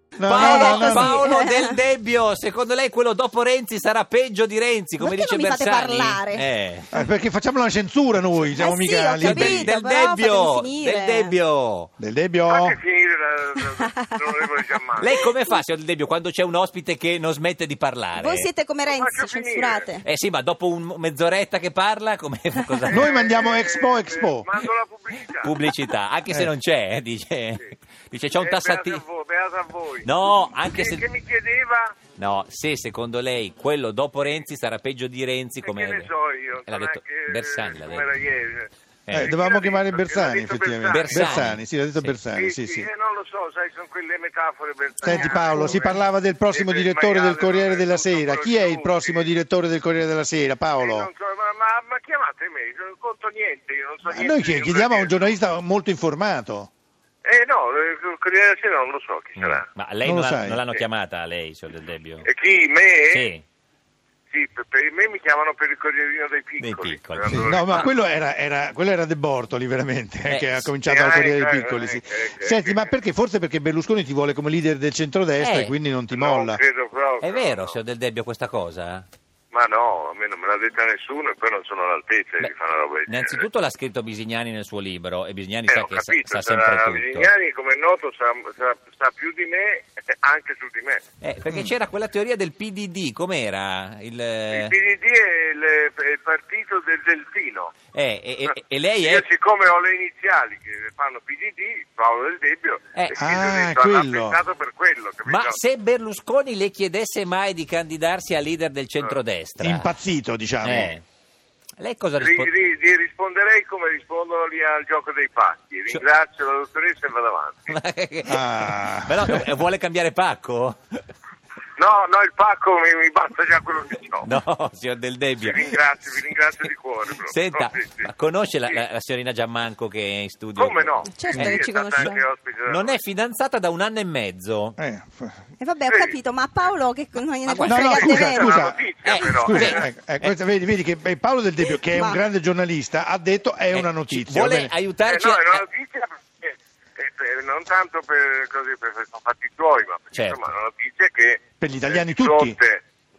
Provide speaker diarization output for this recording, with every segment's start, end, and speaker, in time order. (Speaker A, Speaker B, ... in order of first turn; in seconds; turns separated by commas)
Speaker A: 0.2-1.1, Speaker B: 0.2-6.9, Speaker C: 0.4-1.7, Speaker C: 5.0-6.4, Speaker A: 6.9-9.7, Speaker C: 8.6-11.3, Speaker B: 9.2-11.9, Speaker A: 12.0-12.8, Speaker D: 12.5-15.2, Speaker C: 13.6-14.7, Speaker B: 15.0-18.5, Speaker C: 18.1-20.0, Speaker D: 18.9-19.9, Speaker B: 20.0-23.1, Speaker A: 22.9-24.5, Speaker D: 22.9-25.6, Speaker B: 25.4-29.0, Speaker D: 28.4-30.1, Speaker B: 30.0-31.1, Speaker D: 30.6-32.0, Speaker B: 32.2-36.1, Speaker D: 35.6-38.7, Speaker B: 36.7-38.1, Speaker B: 39.1-39.3, Speaker A: 39.1-42.9, Speaker D: 39.2-41.5, Speaker B: 40.9-42.2, Speaker D: 42.3-49.3, Speaker A: 45.0-51.1, Speaker D: 50.8-55.3, Speaker A: 54.1-56.7, Speaker D: 57.2-59.6, Speaker B: 59.4-62.3, Speaker A: 60.0-60.6, Speaker D: 62.2-63.3, Speaker B: 63.1-63.4, Speaker D: 64.3-67.9, Speaker B: 66.6-67.9, Speaker A: 67.3-76.6, Speaker B: 70.3-70.7, Speaker D: 70.9-72.9, Speaker B: 75.4-75.7, Speaker D: 76.1-77.8, Speaker B: 77.2-79.1, Speaker D: 79.5-83.4, Speaker B: 83.1-87.3, Speaker D: 85.7-91.0, Speaker B: 91.2-94.7, Speaker D: 94.5-97.7, Speaker B: 97.9-99.2, Speaker D: 99.0-105.6, Speaker B: 103.0-103.2, Speaker A: 103.1-104.4, Speaker B: 105.3-109.9, Speaker A: 109.6-110.9, Speaker B: 110.6-111.0, Speaker B: 111.8-112.5, Speaker D: 112.2-117.7, Speaker B: 117.7-121.0, Speaker A: 118.3-119.4, Speaker D: 121.8-124.3, Speaker B: 124.2-125.8, Speaker D: 125.4-128.1, Speaker B: 127.2-134.8, Speaker D: 130.6-133.0, Speaker C: 131.1-132.2, Speaker A: 134.8-135.4, Speaker C: 135.6-138.7, Speaker D: 135.9-136.2, Speaker B: 137.5-138.1, Speaker A: 137.6-144.7, Speaker D: 137.7-139.8, Speaker B: 139.0-140.3, Speaker C: 141.7-142.2, Speaker B: 143.7-145.6, Speaker D: 145.1-152.8, Speaker B: 150.1-150.4, Speaker A: 151.6-152.6